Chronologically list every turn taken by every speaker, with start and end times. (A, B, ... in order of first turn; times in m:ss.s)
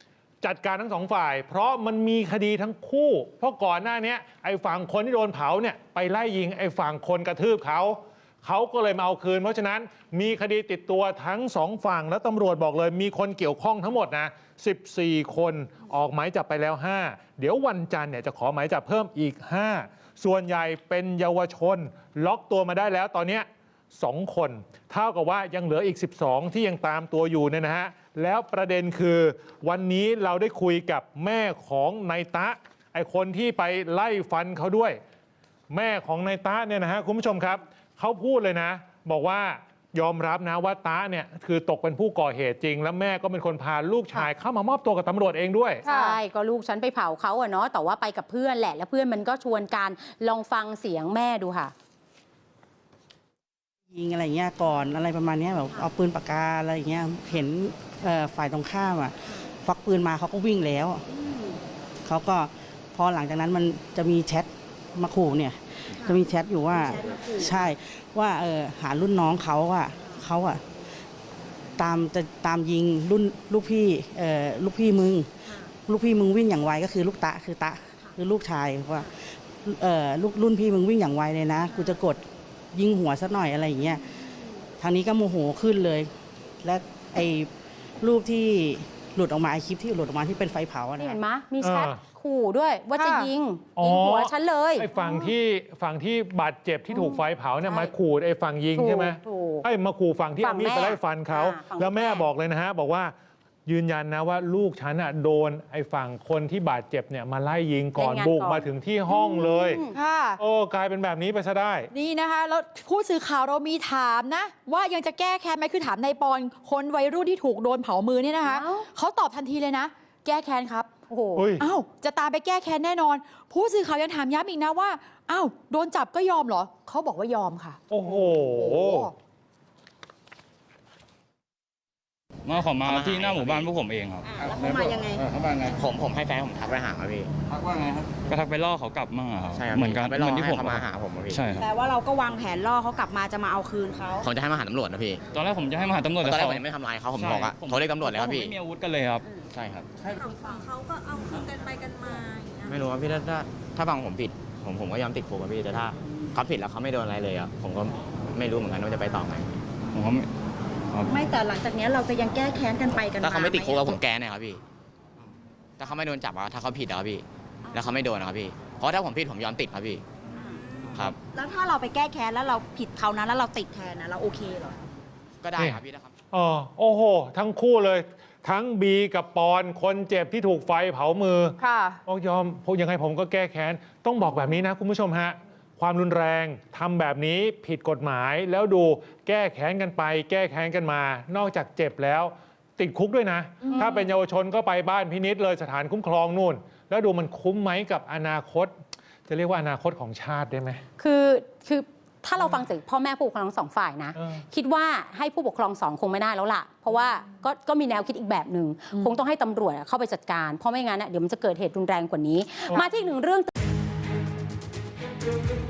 0:00.4-0:35.0 A
0:35.7-0:45.8 A
0:45.8-0:51.7 B
0:45.8-0:46.2 C
0:53.9-1:01.0 D
1:01.1-1:01.6 E
1:02.0-1:10.6 D
1:06.8-1:07.7 E
1:11.8-1:26.1 D
1:24.4-1:24.6 E
1:26.6-1:31.2 D
1:31.0-1:35.2 B
1:31.6-1:32.0 A
1:33.0-1:33.3 C
1:33.8-1:43.1 A
1:36.9-1:37.9 B
1:38.7-1:39.7 B
1:40.4-1:42.3 B
1:43.7-1:49.8 A
1:48.0-1:50.0 B
1:49.9-1:50.4 C
1:50.4-1:51.9 A
1:51.9-2:00.9 C
1:58.4-1:58.9 B
2:01.1-2:01.6 B
2:01.4-2:01.6 A
2:01.6-2:09.1 C
2:07.9-2:09.1 A
2:12.5-2:15.8 F
2:12.8-2:13.7 G
2:14.3-2:15.2 E
2:15.7-2:17.3 G
2:17.7-2:21.7 F
2:19.5-2:21.5 G
2:21.6-2:24.3 E
2:24.2-2:25.2 G
2:25.3-2:29.3 F
2:26.2-2:28.5 G
2:29.5-2:30.1 G
2:30.1-2:32.8 H
2:32.7-2:39.6 G
2:39.9-2:40.3 F
2:40.9-2:41.2 F
2:41.1-2:44.0 E
2:43.2-2:44.6 G
2:45.8-2:50.0 G
2:47.7-2:47.9 E
2:50.4-2:54.8 E
2:55.4-2:56.1 G
2:55.6-3:18.7 A
3:01.6-3:02.0 C
3:13.6-3:14.0 C
3:13.7-3:14.0 B
3:19.3-3:20.8 A
3:21.0-3:33.5 B
3:22.4-3:22.6 A
3:24.2-3:24.4 A